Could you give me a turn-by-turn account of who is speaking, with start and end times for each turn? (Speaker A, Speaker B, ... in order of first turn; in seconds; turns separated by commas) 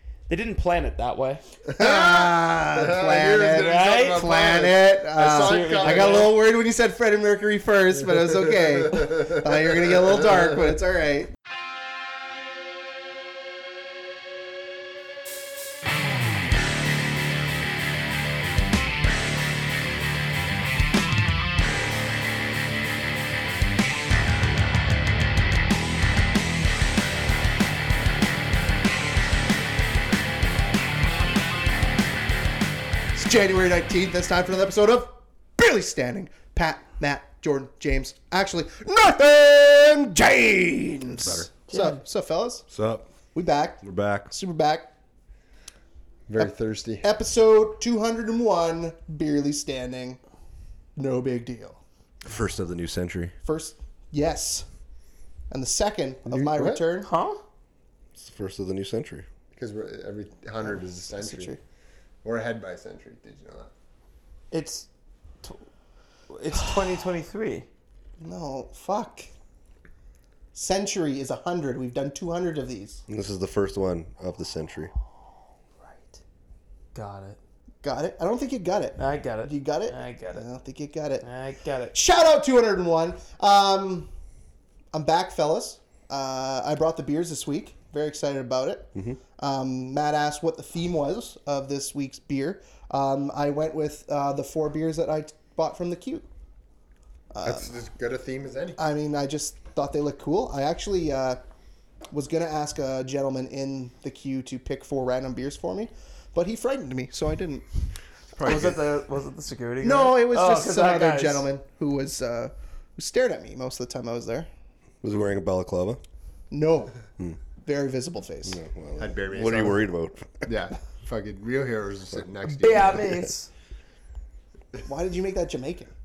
Speaker A: 0.3-1.4, Speaker B: 1.7-6.4, Speaker C: 1.8-11.3, Speaker A: 3.5-4.3, Speaker A: 5.3-6.3, Speaker B: 8.8-9.9, Speaker C: 33.1-42.7, Speaker A: 41.7-42.0, Speaker D: 42.7-43.1, Speaker C: 43.3-44.9, Speaker D: 43.8-44.3, Speaker B: 46.3-47.1, Speaker C: 47.0-50.2, Speaker C: 51.0-51.8, Speaker D: 52.2-53.3, Speaker C: 53.4-54.6, Speaker C: 55.5-57.1, Speaker B: 56.3-56.8, Speaker A: 57.0-57.4, Speaker D: 58.2-59.2, Speaker B: 59.5-61.6, Speaker C: 60.6-61.6, Speaker B: 62.2-63.7, Speaker A: 64.5-64.9, Speaker A: 66.3-67.7, Speaker C: 68.2-69.3, Speaker C: 70.5-73.0, Speaker D: 73.1-74.9, Speaker A: 75.8-76.2, Speaker A: 76.9-77.4, Speaker C: 77.8-81.2, Speaker A: 79.0-80.4, Speaker A: 81.2-81.9, Speaker C: 81.9-84.1, Speaker C: 84.9-96.3, Speaker C: 97.3-97.7, Speaker B: 97.4-98.8, Speaker C: 98.8-101.4, Speaker C: 102.1-107.7, Speaker C: 108.4-108.8, Speaker A: 108.4-111.5, Speaker C: 109.8-114.5, Speaker D: 115.0-116.0, Speaker C: 116.5-117.0, Speaker C: 117.6-118.6, Speaker D: 118.5-120.4, Speaker B: 119.0-119.8, Speaker B: 120.4-123.3, Speaker A: 122.5-123.5, Speaker C: 124.8-125.9